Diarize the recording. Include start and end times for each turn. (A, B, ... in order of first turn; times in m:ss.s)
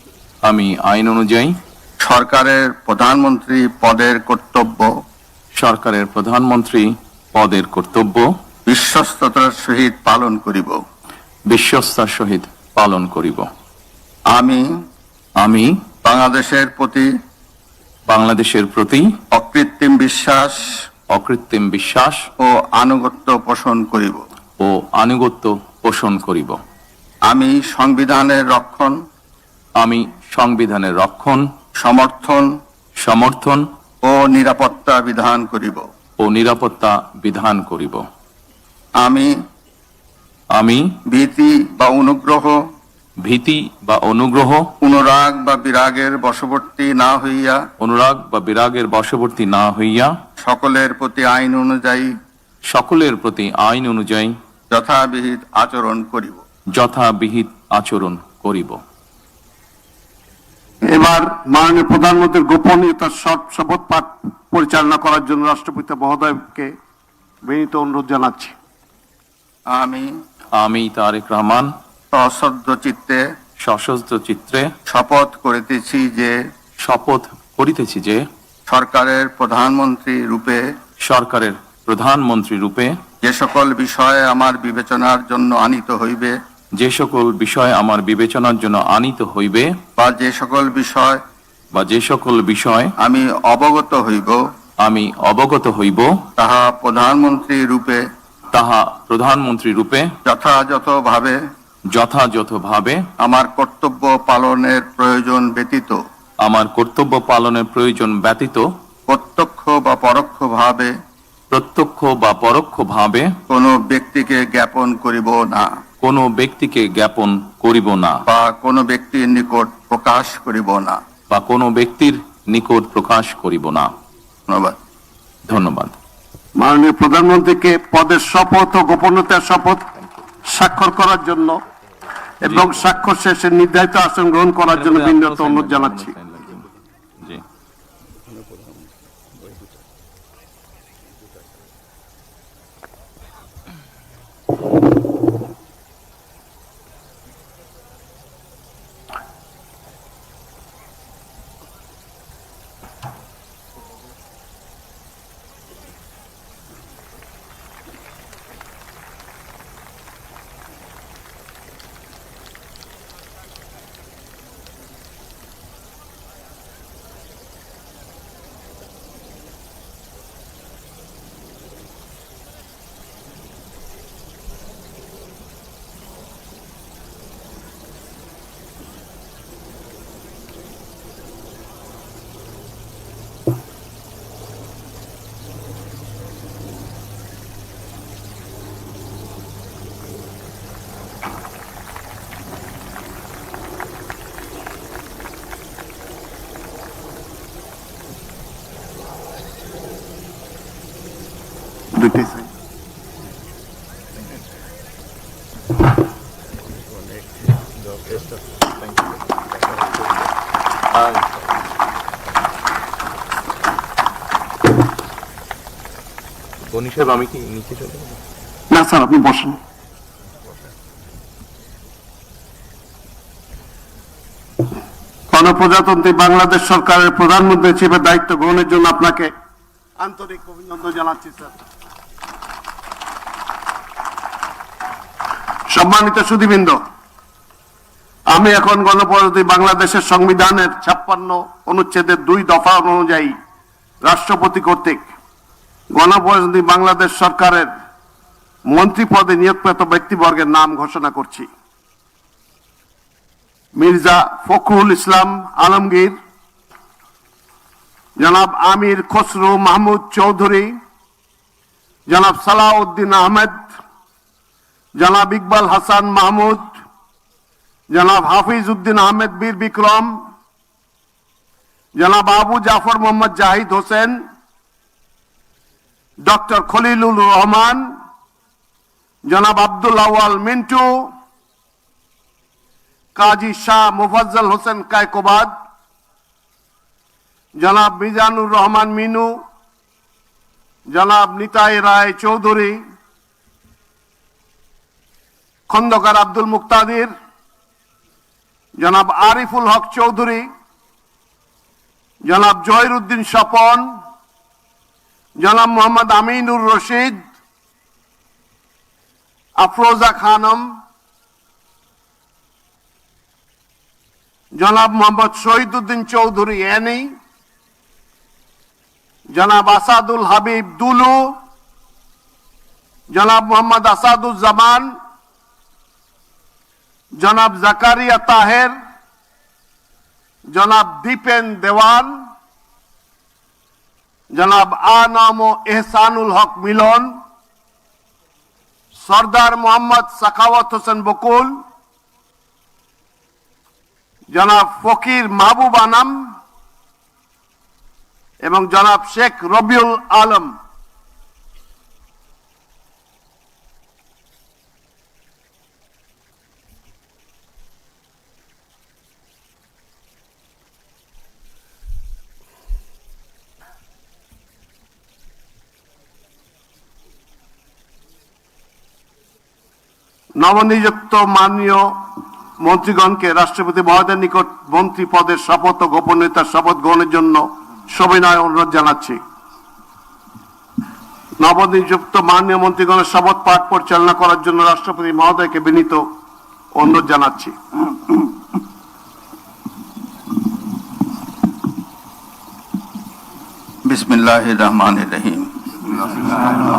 0:00.4-0:01.5 A
0:02.0-0:04.9 B
0:05.6-0:08.3 A
0:08.7-0:10.8 B
0:11.5-0:13.5 A
0:14.3-0:14.7 B
0:15.4-0:15.7 A
0:16.0-0:17.1 B
0:18.1-0:19.1 A
0:19.3-0:20.7 B
0:21.1-0:22.2 A
0:22.4-0:24.2 B
0:24.6-0:26.6 A
0:27.3-0:29.0 B
0:29.8-0:31.4 A
0:31.8-0:32.5 B
0:33.0-0:33.6 A
0:34.0-0:35.8 B
0:36.2-0:38.0 A
0:39.0-0:39.3 B
0:40.6-0:40.9 A
0:41.1-0:42.6 B
0:43.2-0:44.7 A
0:44.8-0:47.6 B
0:47.8-0:50.1 A
0:50.4-0:52.1 B
0:52.7-0:54.3 A
0:54.7-0:56.4 B
0:56.7-0:58.8 A
1:00.9-1:06.7 C
1:07.5-1:08.5 C
1:09.7-1:10.2 B
1:10.6-1:11.7 A
1:12.1-1:13.2 B
1:13.6-1:14.7 A
1:14.9-1:16.4 B
1:16.8-1:18.2 A
1:18.7-1:20.6 B
1:21.0-1:23.0 A
1:23.2-1:26.4 B
1:26.8-1:29.7 A
1:30.0-1:31.2 B
1:31.7-1:32.9 A
1:33.0-1:34.4 B
1:34.8-1:36.1 A
1:36.4-1:38.0 B
1:38.5-1:40.1 A
1:40.2-1:41.4 B
1:41.9-1:43.0 A
1:43.2-1:46.0 B
1:46.4-1:48.6 A
1:49.1-1:50.9 B
1:51.5-1:53.3 A
1:53.5-1:55.7 B
1:56.0-1:58.2 A
1:58.3-2:01.0 B
2:01.3-2:03.9 A
2:04.5-2:04.8 B
2:05.5-2:05.9 A
2:06.6-2:09.9 C
2:10.4-2:11.6 C
2:12.4-2:16.1 C
2:14.7-2:16.6 A
3:21.9-3:22.5 C
3:27.8-3:30.2 A
3:30.9-3:31.3 A
3:36.7-3:38.2 A
3:38.7-3:39.6 C
3:45.3-3:49.3 C
3:50.0-3:51.5 C
3:55.7-3:56.8 C
3:58.3-4:03.3 C
4:04.0-4:05.0 C
4:05.9-4:07.7 C
4:08.7-4:11.5 C
4:13.8-4:16.1 C
4:18.2-4:20.7 C
4:22.1-4:23.7 C
4:25.0-4:26.8 C
4:27.9-4:30.2 C
4:32.0-4:34.2 C
4:36.2-4:37.9 C
4:39.2-4:41.1 C
4:43.1-4:45.5 C
4:47.6-4:49.4 C
4:50.9-4:52.8 C
4:55.7-4:57.1 C
4:58.8-5:00.5 C
5:02.2-5:03.9 C
5:05.4-5:07.2 C
5:09.6-5:10.7 C
5:14.6-5:17.1 C
5:19.3-5:21.4 C
5:23.1-5:24.9 C
5:27.2-5:28.7 C
5:30.5-5:32.3 C
5:34.3-5:37.1 C
5:39.0-5:41.6 C
5:44.3-5:46.4 C
5:48.4-5:50.6 C
6:10.4-6:19.2 C
6:21.4-6:26.0 C
6:26.7-6:27.5 C
6:33.8-6:35.5 B